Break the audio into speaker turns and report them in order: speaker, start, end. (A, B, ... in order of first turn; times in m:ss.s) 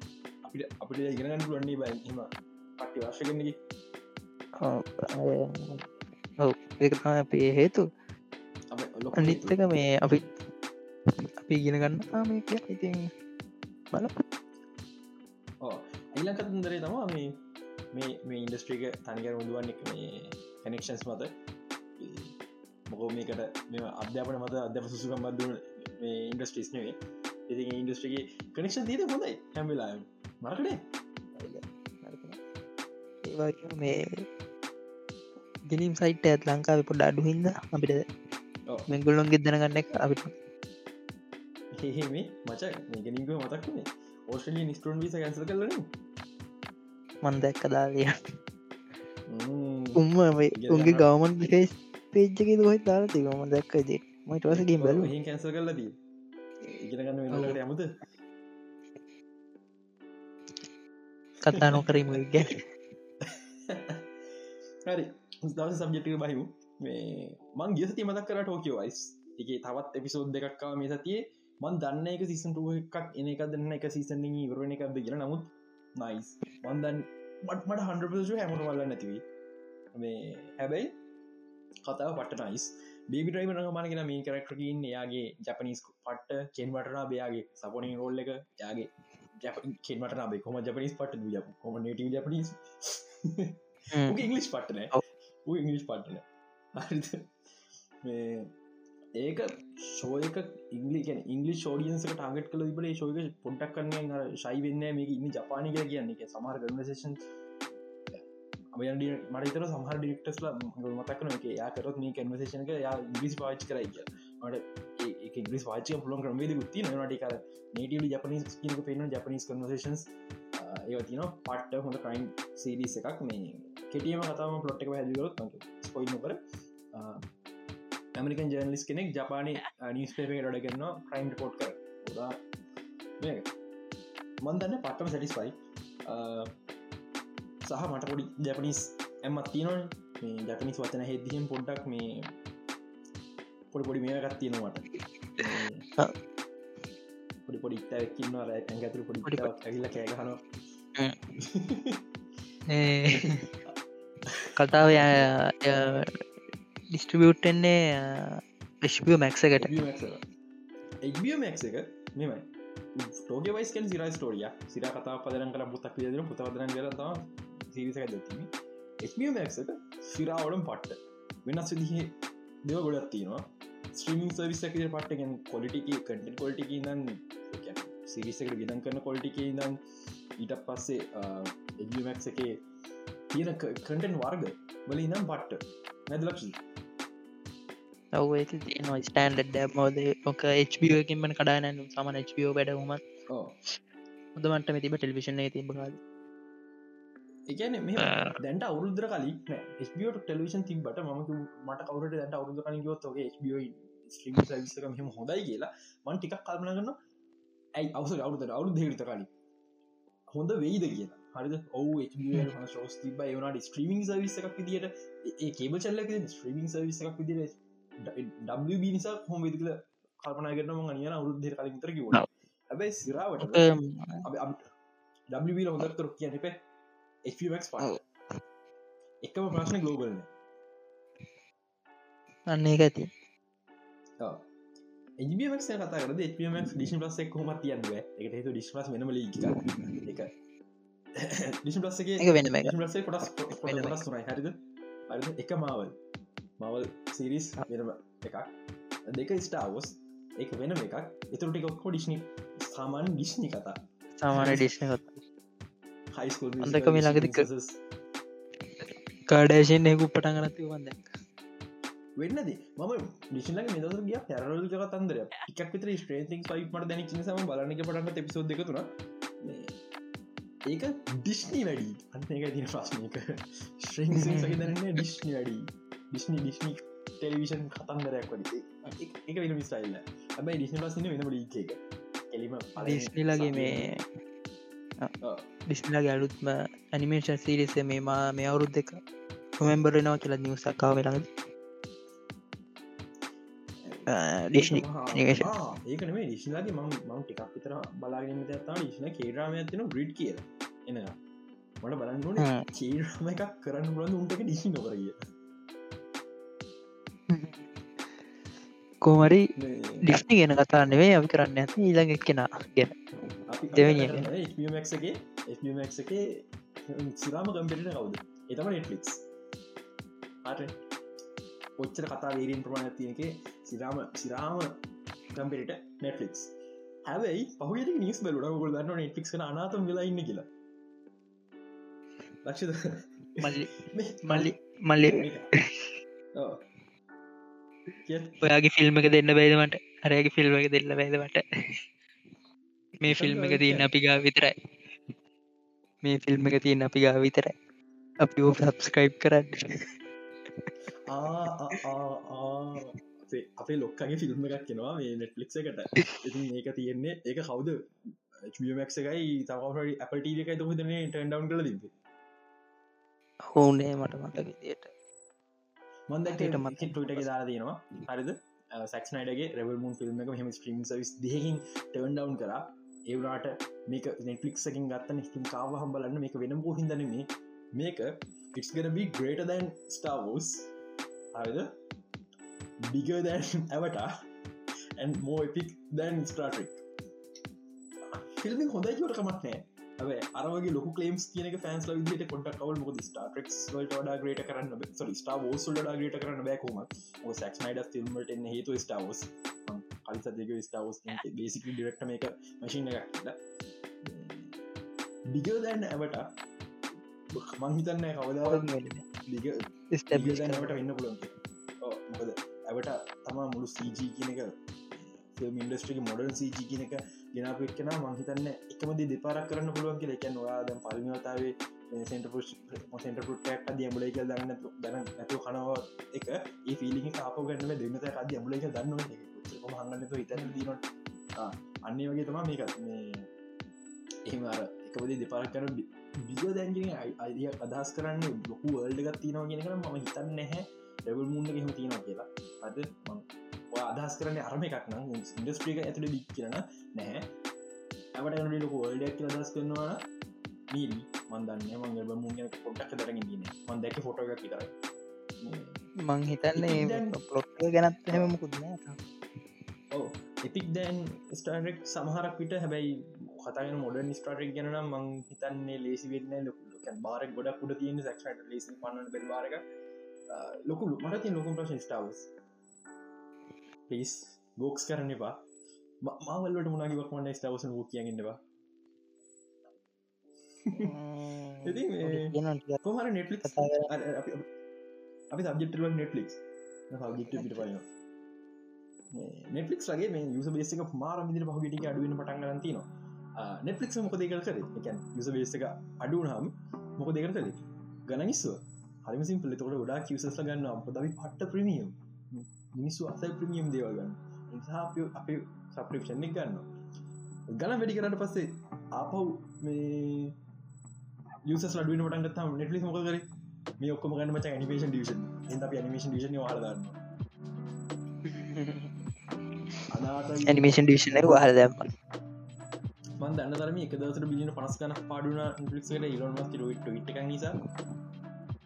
0:00.4-0:03.6 A
0:04.6-0:05.8 B
0:06.4-0:07.8 B
0:08.7-0:09.6 A
0:09.2-0:10.3 B
0:11.2-0:13.1 B
0:13.9-0:14.2 B
0:15.6-0:17.4 A
0:17.9-0:21.3 A
0:22.0-0:22.3 A
0:22.9-0:27.0 A
0:27.5-0:30.8 A
0:31.4-0:32.4 B
0:33.2-0:34.2 B
0:35.7-0:38.1 B
0:38.9-0:40.4 B
0:41.8-0:45.9 A
0:47.2-0:48.3 B
0:49.3-0:50.0 A
0:50.0-0:55.1 B
0:50.6-0:51.1 A
0:54.5-0:55.9 A
0:56.6-0:58.0 A
0:57.3-0:57.6 B
1:01.4-1:02.7 B
1:01.5-1:02.2 A
1:03.2-1:04.0 A
1:04.8-1:19.2 A
1:20.0-1:20.9 A
1:21.8-1:36.2 A
1:33.9-1:34.2 B
1:36.8-1:37.3 A
1:38.0-1:38.5 A
1:39.2-1:47.2 A
1:48.7-2:06.4 A
2:06.9-2:07.3 A
2:08.2-2:12.4 A
2:13.2-2:13.5 A
2:14.4-2:15.6 A
2:16.1-2:16.5 A
2:17.7-2:22.3 A
2:23.7-2:25.8 A
2:27.5-2:30.4 A
2:29.2-2:29.5 B
2:31.4-2:32.0 A
2:32.7-2:33.4 B
2:33.1-2:33.7 A
2:34.3-2:35.3 A
2:34.6-2:36.3 B
2:36.9-2:39.8 B
2:39.6-2:40.2 A
2:41.0-2:48.5 A
2:49.0-2:52.1 A
2:52.7-2:59.8 A
3:00.4-3:02.6 A
3:03.3-3:06.6 A
3:08.1-3:13.0 B
3:14.4-3:16.0 B
3:17.5-3:27.0 A
3:18.0-3:18.3 B
3:27.8-3:29.3 A
3:30.3-3:43.7 A
3:43.4-3:44.3 B
3:44.2-3:44.6 A
3:45.3-3:46.6 A
3:47.3-3:48.0 A
3:49.2-3:50.3 A
3:52.5-3:53.1 B
3:55.2-4:00.3 A
3:59.5-4:00.0 B
4:01.2-4:04.6 A
4:02.2-4:02.8 B
4:03.5-4:04.0 B
4:05.1-4:06.0 A
4:06.6-4:08.5 A
4:09.1-4:13.8 A
4:14.2-4:15.2 B
4:14.3-4:14.7 A
4:16.1-4:17.8 A
4:16.6-4:17.5 B
4:18.7-4:21.1 B
4:22.2-4:28.9 A
4:29.4-4:29.8 A
4:30.7-4:41.8 A
4:34.1-4:34.8 B
4:42.3-4:43.9 A
4:42.8-4:44.0 B
4:45.7-4:49.0 B
4:49.6-4:51.3 B
4:53.9-5:01.2 A
4:54.1-4:55.5 B
5:01.8-5:05.2 A
5:02.4-5:02.6 B
5:07.3-5:08.2 B
5:09.0-5:09.5 B
5:09.6-5:10.1 A
5:10.0-5:13.0 B
5:13.5-5:19.2 A
5:13.7-5:14.3 B
5:20.4-5:20.8 A
5:21.8-5:24.8 A
5:25.3-5:26.5 A
5:27.1-5:30.5 A
5:32.4-5:35.5 A
5:33.4-5:33.8 B
5:34.2-5:35.9 B
5:36.4-5:36.6 A
5:38.0-5:38.4 A
5:38.4-5:41.8 B
5:43.0-5:44.9 B
5:43.1-5:43.9 A
5:46.0-5:47.6 B
5:48.2-5:49.9 B
5:51.1-6:01.9 A
6:03.4-6:04.9 B
6:06.1-6:20.7 A
6:06.3-6:07.3 B
6:21.4-6:21.7 A
6:22.8-6:24.1 A
6:25.0-6:26.8 A
6:28.1-6:43.4 A
6:44.0-6:44.6 A
6:45.3-6:46.3 A
6:47.3-6:48.7 A
6:48.5-6:49.0 B
6:49.2-7:10.8 A
6:49.9-6:50.8 B
7:10.4-7:10.7 B
7:11.4-7:13.3 A
7:14.2-7:27.3 A
7:28.2-7:30.0 A
7:30.7-7:34.7 A
7:35.4-7:35.8 A
7:36.0-7:39.0 B
7:36.5-7:37.2 A
7:38.1-7:38.4 A
7:39.9-7:49.6 A
7:50.3-7:52.3 A
7:53.9-7:55.4 A
7:56.0-7:58.4 A
8:00.7-8:00.9 A
8:00.8-8:02.8 B
8:01.6-8:04.5 A
8:03.4-8:03.9 B
8:05.3-8:06.4 A
8:06.9-8:07.8 A
8:07.3-8:07.7 B
8:09.1-8:12.9 A
8:13.4-8:26.6 A
8:27.5-8:30.3 A
8:31.4-8:33.2 A
8:33.8-8:37.0 A
8:38.2-8:39.0 B
8:39.9-8:40.8 A
8:40.5-8:41.8 B
8:43.2-8:47.6 A